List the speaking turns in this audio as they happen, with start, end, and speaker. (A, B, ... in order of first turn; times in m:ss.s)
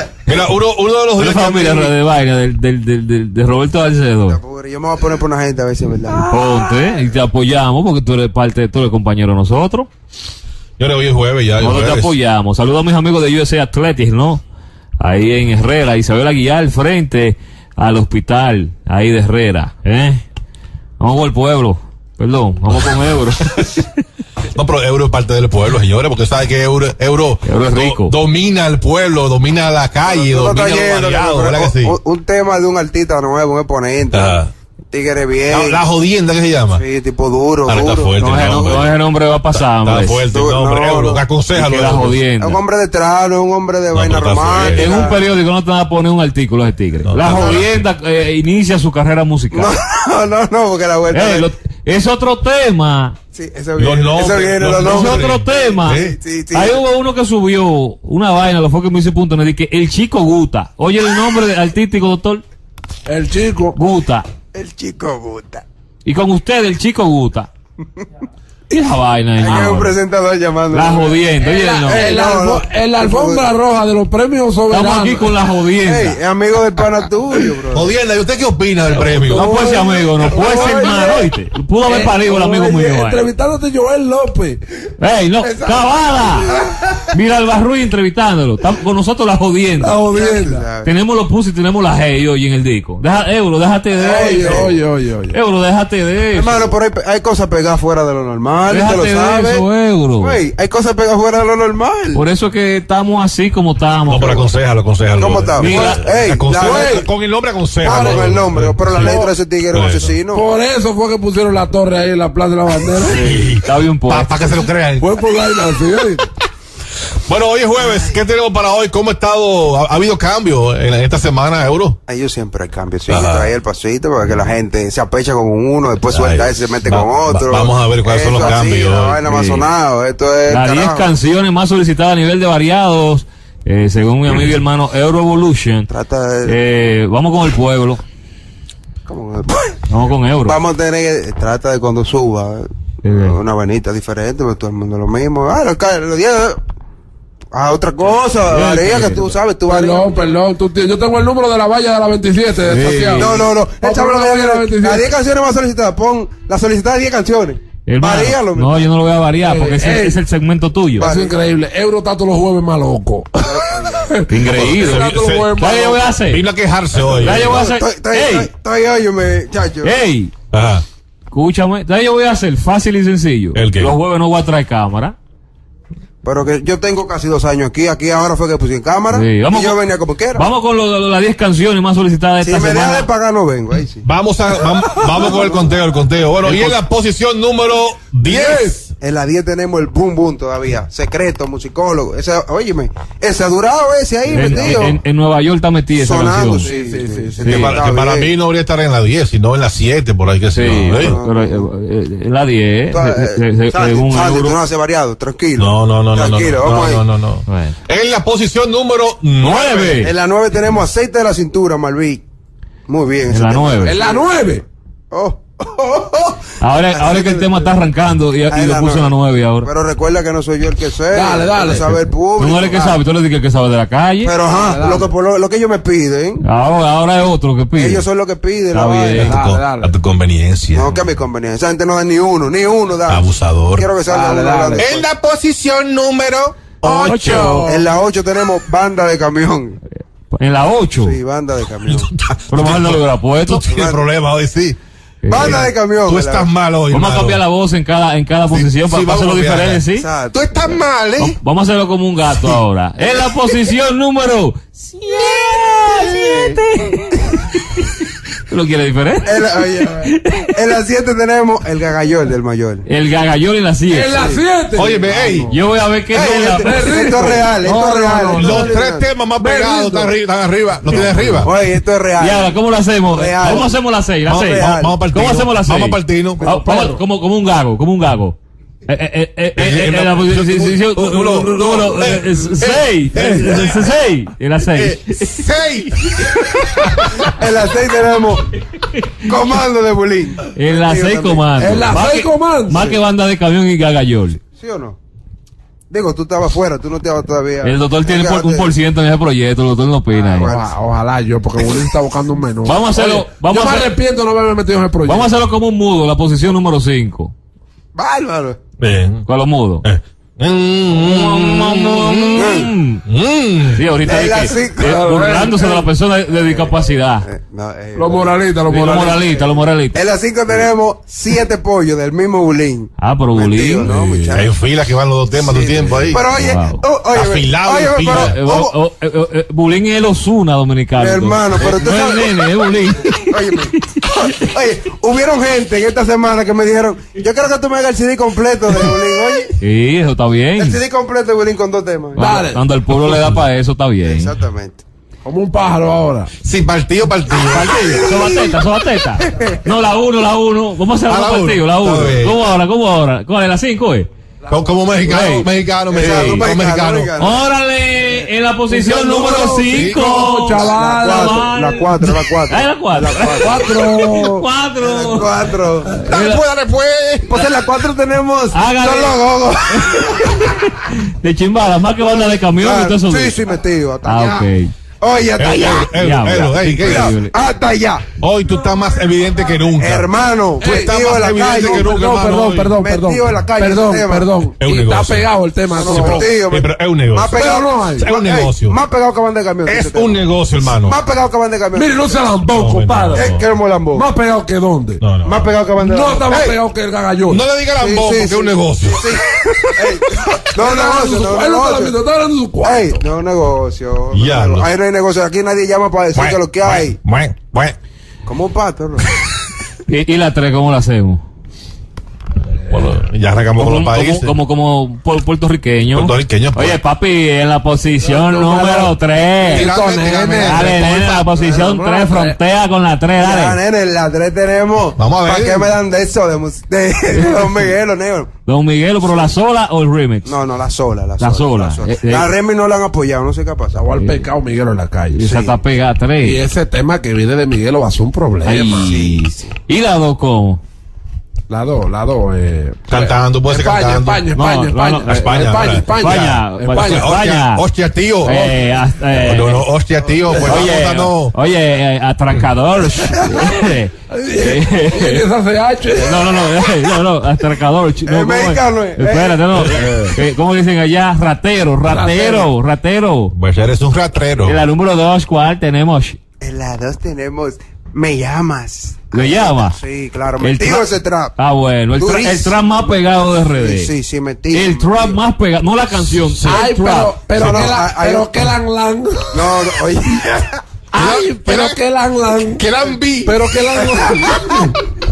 0:00.2-0:01.9 A
0:01.2-0:04.4 B
0:04.3-0:06.5 C
0:06.2-0:09.9 B
0:10.8-0:12.1 A
0:11.6-0:14.4 B
0:15.0-0:20.2 B
0:21.0-0:23.8 B
0:24.5-0:32.0 A
0:27.4-0:28.1 B
0:30.0-0:34.4 C
0:34.1-0:34.5 A
0:34.9-0:35.8 C
0:35.5-0:36.8 A
0:36.7-0:38.6 C
0:37.7-0:38.9 A
0:38.2-0:40.2 B
0:39.6-0:42.2 A
0:40.3-0:41.2 C
0:41.5-0:42.6 B
0:42.4-0:45.2 C
0:43.9-0:44.9 A
0:44.7-0:49.7 B
0:47.0-0:47.8 A
0:47.2-0:47.6 C
0:49.5-0:51.5 C
0:51.1-0:53.2 B
0:53.3-0:56.8 C
0:53.8-0:55.3 A
0:54.8-1:02.4 B
1:03.0-1:03.8 D
1:03.8-1:04.2 B
1:04.5-1:05.6 C
1:06.0-1:07.5 B
1:08.7-1:09.9 B
1:09.4-1:11.2 C
1:10.7-1:12.1 B
1:11.4-1:15.3 D
1:11.9-1:13.5 C
1:14.7-1:16.2 B
1:15.8-1:18.0 C
1:17.7-1:19.4 A
1:18.9-1:24.6 D
1:19.3-1:23.3 B
1:25.0-1:26.5 B
1:25.4-1:27.0 C
1:27.1-1:30.0 B
1:29.8-1:30.7 D
1:30.1-1:30.9 C
1:30.8-1:34.7 B
1:34.0-1:34.7 C
1:34.0-1:35.3 D
1:35.3-1:36.7 B
1:36.3-1:39.6 C
1:38.7-1:40.4 B
1:40.2-1:42.2 C
1:42.1-1:44.5 B
1:44.1-1:50.2 A
1:45.2-1:47.0 C
1:45.6-1:46.0 B
1:45.6-1:46.0 D
1:46.6-1:47.1 D
1:47.8-1:50.4 C
1:47.9-1:48.3 D
1:48.9-1:49.3 D
1:50.3-1:53.4 D
1:53.0-1:54.5 B
1:53.2-1:55.1 A
1:55.0-1:56.3 D
1:57.3-2:02.0 A
1:57.8-1:58.2 C
2:02.1-2:11.1 C
2:03.1-2:03.5 A
2:06.1-2:09.2 A
2:09.3-2:09.7 B
2:10.5-2:15.9 B
2:15.9-2:16.6 C
2:16.5-2:18.0 B
2:19.1-2:19.8 C
2:19.9-2:20.6 B
2:20.4-2:26.6 C
2:23.0-2:23.4 B
2:27.5-2:30.2 C
2:28.5-2:29.3 B
2:29.7-2:35.1 D
2:32.7-2:33.4 B
2:33.2-2:38.9 C
2:37.9-2:41.1 B
2:39.4-2:40.2 D
2:41.0-2:41.4 C
2:41.0-2:46.2 D
2:43.4-2:44.2 C
2:44.3-2:46.4 B
2:44.6-2:45.5 A
2:46.2-2:47.5 A
2:47.2-2:48.5 B
2:47.3-2:50.0 C
2:49.8-2:50.3 B
2:50.5-2:50.8 A
2:51.3-2:55.2 B
2:53.6-2:54.0 A
2:56.2-3:00.4 C
2:59.1-2:59.8 B
3:00.3-3:03.1 B
3:02.4-3:04.0 C
3:04.0-3:08.5 A
3:04.9-3:05.7 C
3:06.4-3:06.8 D
3:08.3-3:08.9 D
3:08.5-3:15.0 C
3:14.3-3:16.7 B
3:14.4-3:14.8 D
3:16.0-3:18.3 C
3:16.6-3:17.6 D
3:17.4-3:21.2 A
3:20.5-3:24.6 B
3:20.9-3:21.7 C
3:22.9-3:27.0 C
3:25.6-3:30.0 A
3:27.5-3:27.8 B
3:29.4-3:30.1 B
3:30.0-3:32.2 C
3:32.9-3:34.3 C
3:33.3-3:34.0 B
3:33.8-3:34.6 D
3:35.1-3:37.7 C
3:36.6-3:39.7 B
3:38.5-3:43.0 C
3:41.1-3:42.0 D
3:42.4-3:44.3 B
3:44.2-3:46.4 C
3:44.5-3:45.1 D
3:46.4-3:48.0 B
3:47.8-3:49.4 C
3:48.7-3:49.4 B
3:49.1-3:50.0 D
3:49.3-3:50.9 A
3:50.7-3:55.1 C
3:53.1-3:53.9 A
3:54.1-3:54.9 D
3:54.8-3:57.4 A
3:56.8-3:57.9 D
3:57.2-3:57.7 B
3:57.3-3:59.8 C
4:00.3-4:01.2 B
4:01.0-4:02.1 C
4:01.8-4:04.8 A
4:02.5-4:03.6 B
4:03.7-4:04.0 C
4:05.2-4:05.6 B
4:05.3-4:06.5 C
4:05.4-4:07.4 A
4:06.9-4:10.1 B
4:08.5-4:11.4 A
4:10.0-4:10.9 C
4:11.2-4:17.9 B
4:13.0-4:13.6 C
4:15.8-4:16.6 C
4:18.5-4:19.4 B
4:19.2-4:22.9 C
4:20.1-4:20.5 B
4:22.9-4:24.3 B
4:23.9-4:25.6 D
4:24.8-4:25.5 A
4:25.5-4:26.8 B
4:26.1-4:29.1 C
4:26.4-4:28.7 D
4:28.5-4:31.5 A
4:29.3-4:30.2 D
4:30.9-4:31.4 D
4:31.0-4:33.8 C
4:32.2-4:38.4 B
4:34.2-4:36.4 A
4:34.4-4:35.0 C
4:36.4-4:37.0 D
4:38.9-4:45.4 B
4:39.6-4:43.8 A
4:41.0-4:42.1 D
4:43.2-4:43.6 D
4:44.7-4:46.0 A
4:47.0-4:48.6 C
4:49.2-4:52.0 C
4:50.6-4:54.4 B
4:51.6-4:52.9 D
4:54.6-4:55.0 C
4:55.9-4:58.8 C
4:57.6-5:00.5 B
5:00.1-5:00.7 C
5:00.4-5:05.4 D
5:02.6-5:03.9 B
5:05.0-5:07.3 B
5:08.0-5:08.6 C
5:08.8-5:09.3 A
5:09.3-5:09.8 B
5:09.8-5:12.5 A
5:10.9-5:13.0 B
5:12.4-5:12.7 C
5:13.1-5:13.8 A
5:13.7-5:17.2 B
5:14.0-5:15.0 C
5:14.4-5:15.9 D
5:16.3-5:18.4 C
5:18.0-5:19.4 D
5:18.7-5:20.0 B
5:19.9-5:24.5 C
5:23.0-5:23.9 B
5:23.8-5:26.3 A
5:25.3-5:28.7 C
5:26.1-5:26.8 B
5:27.1-5:28.4 A
5:28.1-5:33.6 B
5:31.0-5:32.3 C
5:33.3-5:39.5 C
5:39.6-5:40.8 B
5:40.6-5:42.2 C
5:42.2-5:42.6 D
5:42.2-5:44.3 B
5:43.1-5:43.4 A
5:44.0-5:44.8 C
5:45.2-5:46.3 D
5:46.4-5:47.7 A
5:47.5-5:54.1 B
5:47.6-5:48.4 C
5:51.1-5:52.4 A
5:54.5-5:55.2 D
5:54.5-5:57.1 A
5:55.1-5:56.5 B
5:55.9-5:57.4 C
5:56.2-5:56.4 D
5:57.2-6:05.3 B
5:58.7-6:01.5 D
6:00.6-6:04.0 C
6:03.4-6:04.4 D
6:04.8-6:06.0 C
6:06.0-6:06.4 B
6:06.1-6:07.4 A
6:07.2-6:10.5 C
6:08.5-6:09.2 B
6:09.7-6:13.4 B
6:11.9-6:14.5 C
6:14.0-6:14.7 B
6:15.0-6:18.1 C
6:15.4-6:17.0 A
6:15.9-6:17.3 B
6:18.2-6:20.1 A
6:19.8-6:21.9 C
6:20.6-6:26.5 D
6:20.6-6:22.7 A
6:22.6-6:24.3 C
6:24.6-6:25.3 A
6:25.7-6:32.2 C
6:25.9-6:27.4 A
6:27.2-6:28.2 D
6:28.0-6:28.8 A
6:29.7-6:31.0 A
6:31.7-6:33.4 D
6:32.6-6:33.5 A
6:33.2-6:34.1 C
6:33.9-6:35.0 D
6:35.0-6:35.5 A
6:35.2-6:36.3 C
6:35.8-6:37.4 D
6:36.3-6:36.6 A
6:37.3-6:39.0 A
6:37.8-6:42.0 C
6:40.6-6:43.0 D
6:42.6-6:47.0 C
6:44.1-6:44.7 A
6:46.2-6:47.8 A
6:48.2-6:49.2 C
6:49.9-6:51.2 B
6:52.7-6:54.3 A
6:53.6-6:59.7 B
6:55.9-6:56.8 A
6:58.0-7:02.4 D
6:59.5-7:00.6 A
6:59.9-7:00.7 C
7:00.4-7:03.6 B
7:03.2-7:08.3 C
7:05.0-7:05.7 A
7:08.4-7:10.4 B
7:09.0-7:09.3 C
7:10.2-7:13.9 C
7:11.2-7:12.3 B
7:13.7-7:15.5 D
7:14.0-7:14.2 B
7:15.1-7:16.4 B
7:16.2-7:18.9 D
7:18.4-7:20.6 B
7:18.6-7:19.5 C
7:21.5-7:27.2 D
7:22.9-7:24.2 A
7:24.3-7:27.6 B
7:25.2-7:26.4 A
7:26.9-7:28.3 A
7:28.2-7:28.6 D
7:28.2-7:29.6 B
7:29.2-7:31.4 A
7:30.4-7:30.6 D
7:30.4-7:35.2 B
7:34.1-7:36.9 D
7:36.0-7:43.3 B
7:38.0-7:39.4 C
7:39.7-7:40.1 A
7:41.8-7:42.5 D
7:43.3-7:44.6 A
7:44.4-7:46.2 B
7:46.4-7:51.4 C
7:49.1-7:49.8 B
7:50.4-7:53.9 B
7:52.0-7:52.9 C
7:53.6-7:55.2 C
7:54.5-7:57.2 B
7:56.2-7:56.6 A
7:56.4-7:59.7 D
7:57.3-7:58.4 C
7:57.4-7:57.8 A
7:59.3-8:00.6 C
8:00.9-8:04.8 D
8:00.9-8:01.8 A
8:02.6-8:03.4 A
8:04.0-8:04.5 C